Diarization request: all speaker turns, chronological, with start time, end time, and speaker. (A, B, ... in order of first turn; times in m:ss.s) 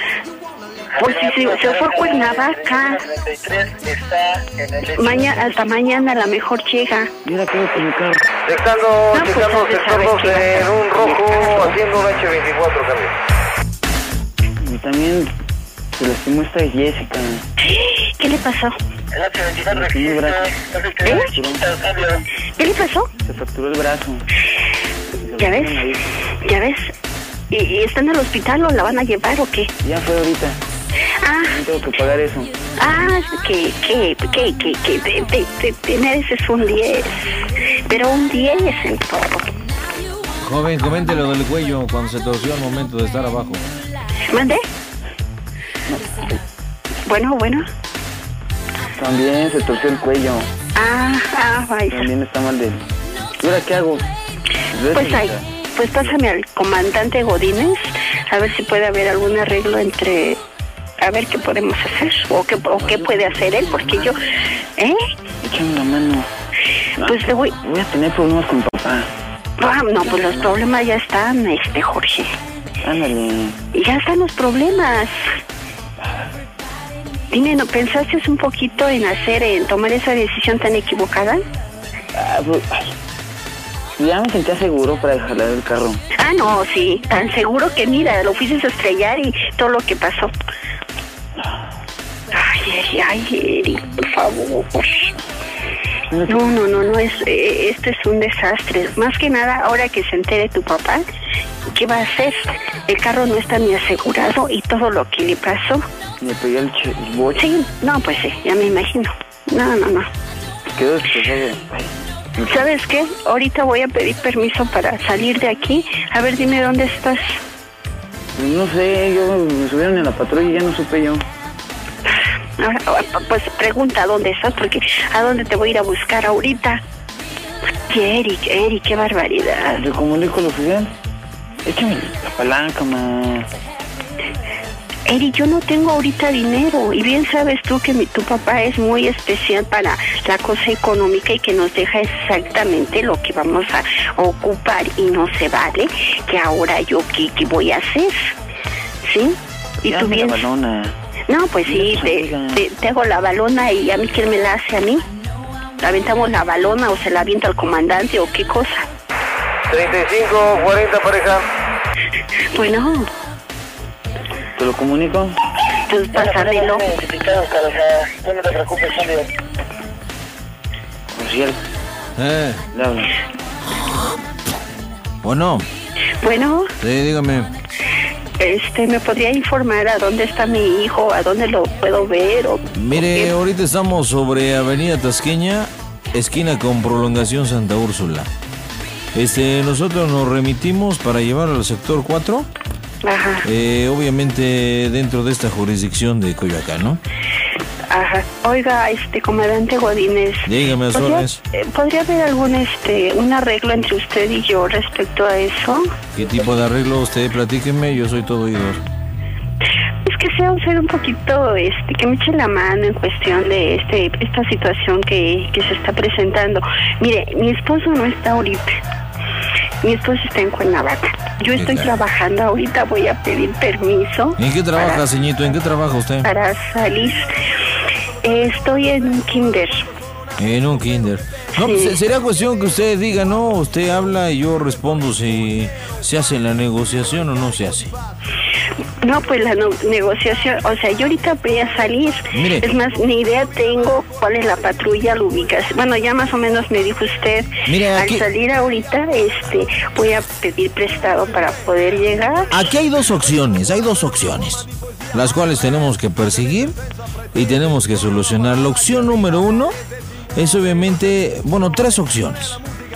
0:01.0-0:05.5 A
0:01.0-0:03.0 B
0:05.0-0:07.1 B
0:07.2-0:08.3 C
0:08.4-0:13.1 A
0:09.1-0:11.7 B
0:14.6-0:15.3 C
0:15.9-0:17.4 C
0:17.6-0:18.8 B
0:19.1-0:22.2 A
0:19.7-0:21.6 C
0:21.0-0:21.3 B
0:22.6-0:23.1 B
0:23.2-0:24.2 C
0:25.2-0:26.1 C
0:25.4-0:26.9 B
0:27.5-0:29.7 B
0:29.8-0:30.6 C
0:31.2-0:31.6 B
0:31.5-0:32.5 C
0:32.8-0:39.5 B
0:40.4-0:43.6 D
0:44.3-0:44.6 B
0:45.9-0:46.2 C
0:47.0-0:47.7 B
0:49.0-0:50.5 C
0:50.7-0:52.1 B
0:51.9-0:52.8 C
0:53.4-0:54.0 C
0:54.7-0:55.4 C
0:54.9-1:00.4 B
1:01.0-1:04.2 B
1:02.9-1:04.0 C
1:05.4-1:06.3 C
1:07.0-1:09.1 C
1:07.0-1:07.6 B
1:09.6-1:12.3 B
1:10.1-1:10.5 C
1:12.8-1:13.6 C
1:13.7-1:15.3 B
1:17.3-1:21.4 B
1:22.1-1:22.9 C
1:24.0-1:26.0 C
1:26.2-1:30.3 B
1:32.3-1:35.1 B
1:36.3-1:41.0 B
1:41.7-1:45.8 B
1:46.2-1:47.4 C
1:47.4-1:50.1 B
1:50.7-1:52.6 C
1:52.4-1:57.4 B
1:58.4-2:01.2 C
2:02.6-2:06.8 B
2:07.9-2:09.8 B
2:09.8-2:10.9 C
2:11.6-2:13.5 C
2:15.1-2:28.3 B
2:29.0-2:30.5 B
2:29.8-2:30.9 C
2:31.3-2:35.0 B
2:31.6-2:32.6 C
2:35.8-2:38.9 B
2:39.7-2:41.4 A
2:42.5-2:43.1 B
2:44.6-2:45.4 C
2:45.9-2:46.9 B
2:46.1-2:49.3 A
2:51.1-2:51.6 C
2:52.2-2:52.6 D
2:52.7-2:53.1 C
2:55.2-2:55.7 D
2:56.2-2:56.7 B
2:56.8-2:57.5 D
2:58.4-3:03.3 B
3:02.7-3:08.3 D
3:09.1-3:12.5 D
3:13.0-3:13.5 B
3:13.4-3:17.0 D
3:17.9-3:25.9 B
3:20.4-3:21.4 D
3:26.1-3:28.8 D
3:30.0-3:38.8 B
3:39.8-3:45.0 B
3:41.5-3:41.9 D
3:44.4-3:46.3 D
3:46.2-3:47.3 B
3:48.2-3:49.8 B
3:50.4-3:57.9 D
3:51.6-3:52.0 B
3:59.0-4:12.6 B
4:02.3-4:02.7 D
4:07.6-4:08.2 D
4:12.5-4:16.7 D
4:17.3-4:19.8 D
4:20.3-4:22.6 D